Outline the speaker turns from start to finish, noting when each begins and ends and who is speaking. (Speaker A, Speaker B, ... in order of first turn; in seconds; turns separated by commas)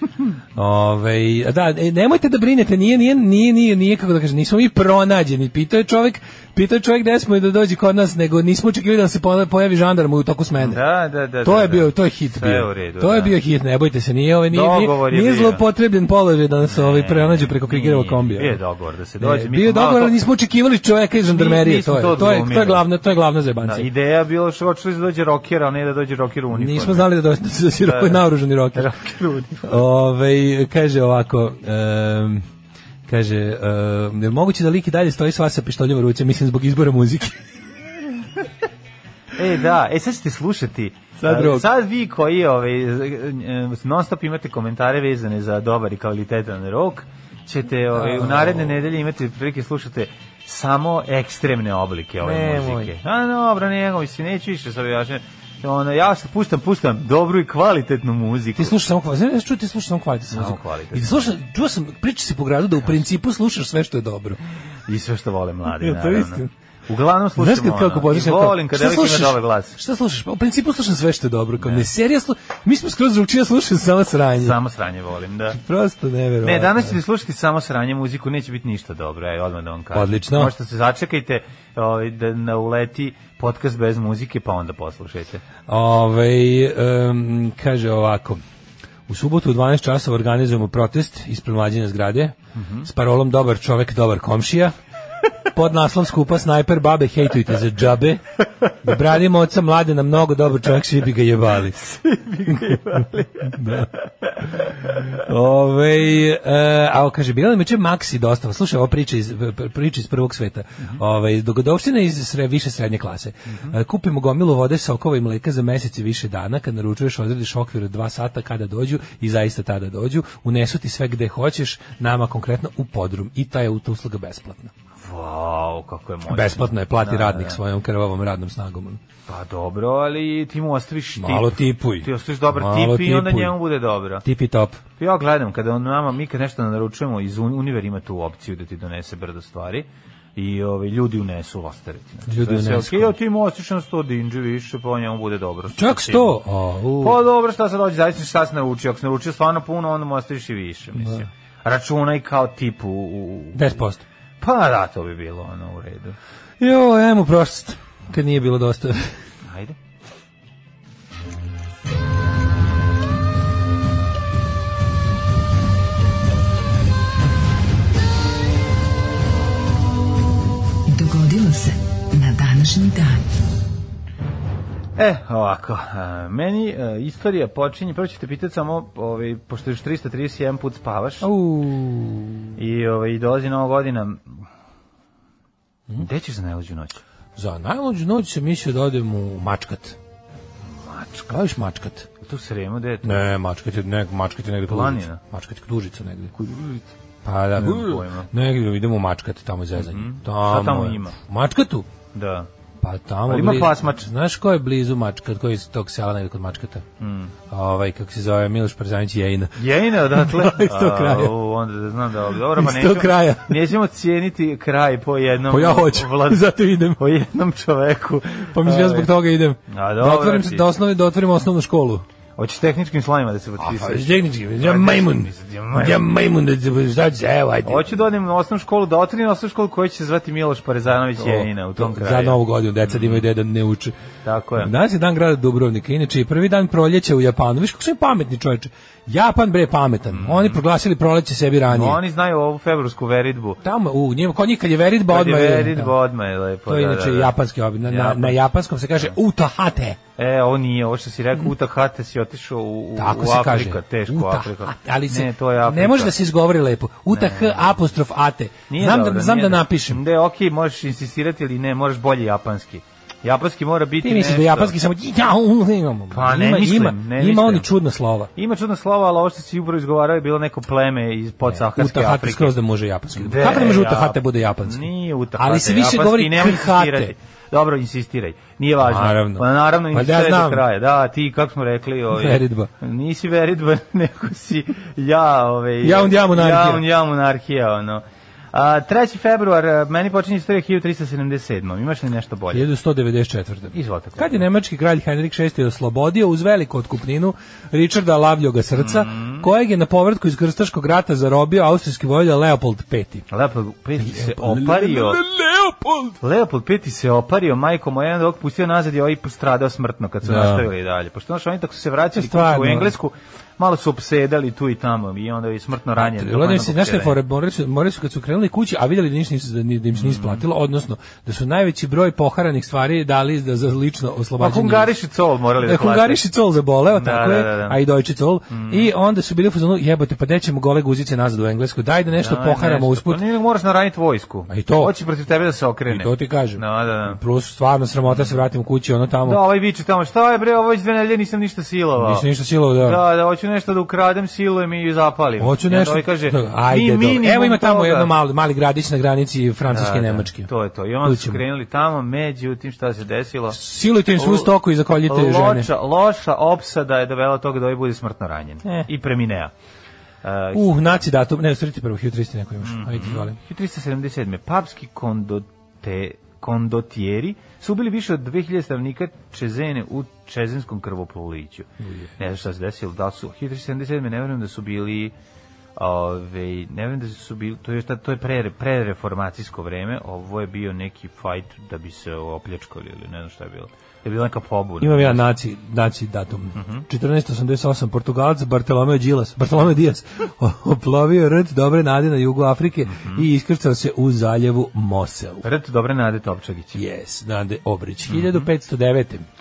Speaker A: 0.5-10.8, Speaker B: 10.6-13.3, Speaker A: 11.4-18.6, Speaker B: 14.5-15.6, Speaker B: 16.6-20.1, Speaker A: 19.2-23.9, Speaker B: 21.3-22.9, Speaker B: 23.6-27.1, Speaker A: 26.5-28.9, Speaker B: 27.8-29.8, Speaker A: 29.6-32.4, Speaker A: 33.1-37.4, Speaker B: 39.4-58.8, Speaker A: 41.2-41.6, Speaker A: 47.9-48.8, Speaker A: 52.2-52.9, Speaker A: 58.5-64.4, Speaker B: 60.3-61.3, Speaker B: 64.9-69.8, Speaker A: 65.8-66.5, Speaker A: 67.4-74.5, Speaker B: 71.6-71.9, Speaker B: 74.4-75.6, Speaker A: 75.5-77.0, Speaker B: 76.4-85.4, Speaker A: 79.9-80.5, Speaker A: 85.7-88.4, Speaker A: 89.1-94.7, Speaker B: 92.5-92.9, Speaker A: 95.5-98.2, Speaker A: 98.8-101.8, Speaker B: 101.8-104.0, Speaker A: 102.5-103.9, Speaker A: 105.1-124.7, Speaker B: 125.0-127.6, Speaker A: 126.3-129.0, Speaker B: 129.3-134.2, Speaker A: 131.2-133.6, Speaker A: 134.2-134.8, Speaker B: 135.0-146.4, Speaker A: 142.3-143.1, Speaker A: 145.8-147.2, Speaker B: 147.0-153.8, Speaker A: 153.5-154.0, Speaker B: 154.4-156.2, Speaker A: 156.6-159.1, Speaker B: 159.4-159.8, Speaker C: 170.9-173.2, Speaker B: 175.0-181.3, Speaker A: 181.2-182.5, Speaker B: 182.6-184.4, Speaker B: 186.0-187.0, Speaker A: 187.3-190.0, Speaker B: 190.6-191.3, Speaker A: 191.3-192.1, Speaker B: 192.2-193.2, Speaker A: 193.0-196.3, Speaker B: 194.7-195.2, Speaker B: 196.3-196.9, Speaker A: 197.2-201.8, Speaker B: 197.6-198.3, Speaker B: 199.8-201.2, Speaker B: 202.1-202.5, Speaker A: 202.8-206.8, Speaker B: 203.3-204.1, Speaker B: 207.0-207.3, Speaker A: 207.5-211.3, Speaker B: 209.6-219.1, Speaker A: 212.6-213.6, Speaker A: 215.5-217.0, Speaker A: 218.5-222.0, Speaker B: 219.7-220.7, Speaker B: 222.4-226.1, Speaker A: 223.6-227.9, Speaker B: 227.6-233.2, Speaker A: 231.2-233.9, Speaker B: 234.2-234.7, Speaker A: 234.6-242.0, Speaker B: 240.1-240.6, Speaker B: 241.7-243.6, Speaker A: 243.6-245.9, Speaker B: 245.1-248.4, Speaker A: 246.7-250.0, Speaker B: 250.2-256.1, Speaker A: 253.0-260.0, Speaker B: 257.1-257.8, Speaker B: 258.7-264.8, Speaker A: 264.0-268.3, Speaker B: 266.1-267.7, Speaker B: 268.4-272.5, Speaker A: 271.5-277.1, Speaker B: 273.1-292.7, Speaker A: 278.8-280.6, Speaker A: 282.1-282.7, Speaker A: 285.8-286.8, Speaker A: 292.5-303.2, Speaker B: 293.7-294.4, Speaker B: 298.7-299.5, Speaker B: 303.3-305.2, Speaker A: 304.0-306.2, Speaker B: 306.2-317.2, Speaker A: 310.2-310.6, Speaker A: 312.1-312.9, Speaker A: 316.0-324.9, Speaker B: 319.9-320.4, Speaker B: 324.4-326.2, Speaker A: 325.6-333.2, Speaker B: 326.9-327.8, Speaker B: 328.5-328.9, Speaker B: 332.2-337.2, Speaker A: 334.5-334.9, Speaker A: 335.9-339.4, Speaker B: 338.1-338.3, Speaker B: 339.2-342.3, Speaker A: 342.0-343.0, Speaker B: 342.8-348.1, Speaker A: 345.4-350.5, Speaker B: 349.7-353.6, Speaker A: 351.0-351.4, Speaker A: 353.5-355.7, Speaker B: 354.1-354.5, Speaker B: 355.1-359.5, Speaker B: 360.2-360.8, Speaker A: 360.5-363.4, Speaker B: 362.6-375.1, Speaker A: 371.8-372.1, Speaker B: 375.8-385.2, Speaker A: 384.8-395.4, Speaker B: 386.5-386.8, Speaker B: 392.9-393.2, Speaker B: 395.4-396.8, Speaker A: 396.7-399.2, Speaker B: 398.1-398.5